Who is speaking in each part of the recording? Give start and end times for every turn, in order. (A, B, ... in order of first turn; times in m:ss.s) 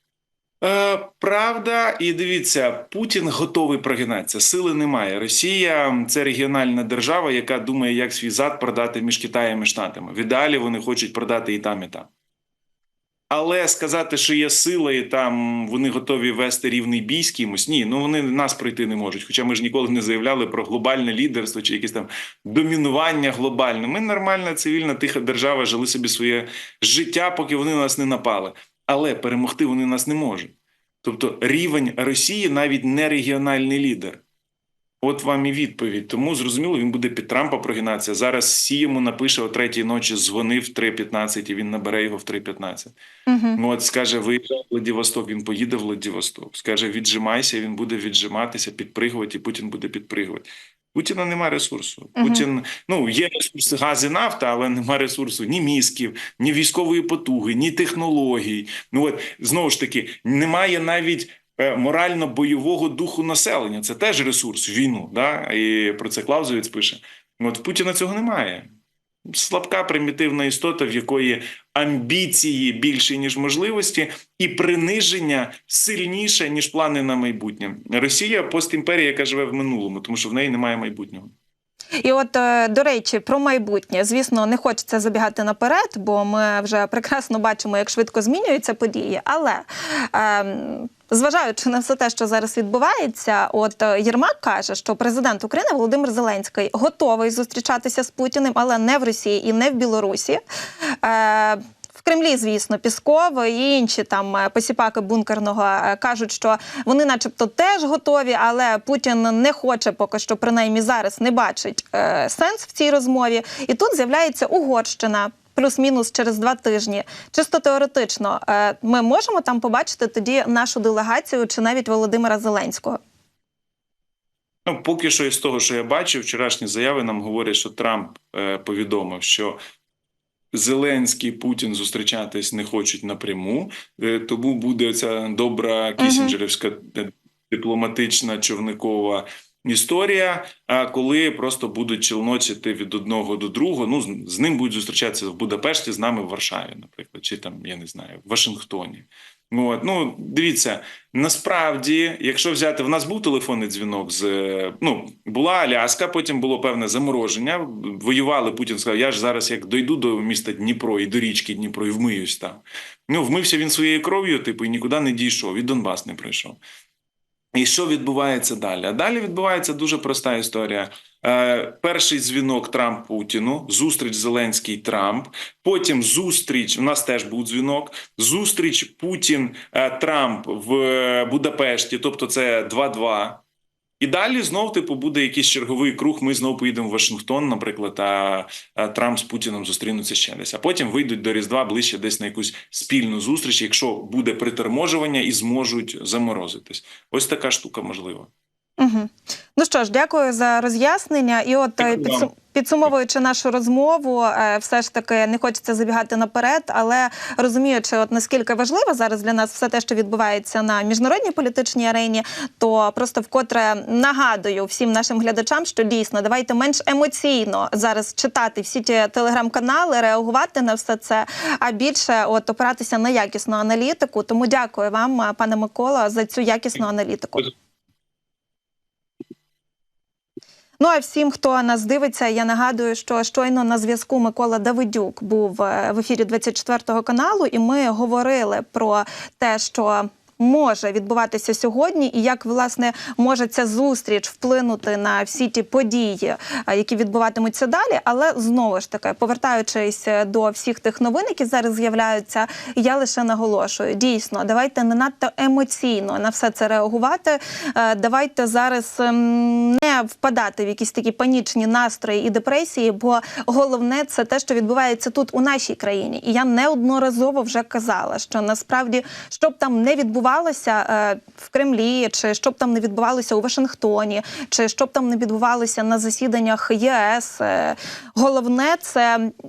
0:00.6-0:12.1 A
0:13.3-0:34.2 A
0:35.0-0:42.9 A
0:43.3-0:43.6 B
0:43.6-1:08.7 A
0:52.2-0:52.5 B
1:09.3-1:21.3 A
1:22.0-2:03.0 B
2:04.7-2:09.6 A
2:10.5-2:46.6 A
2:16.0-2:16.4 B
2:47.5-3:03.4 A
3:04.0-3:18.3 A
3:18.8-3:47.5 B
3:21.8-3:22.3 A
3:50.8-4:39.3 B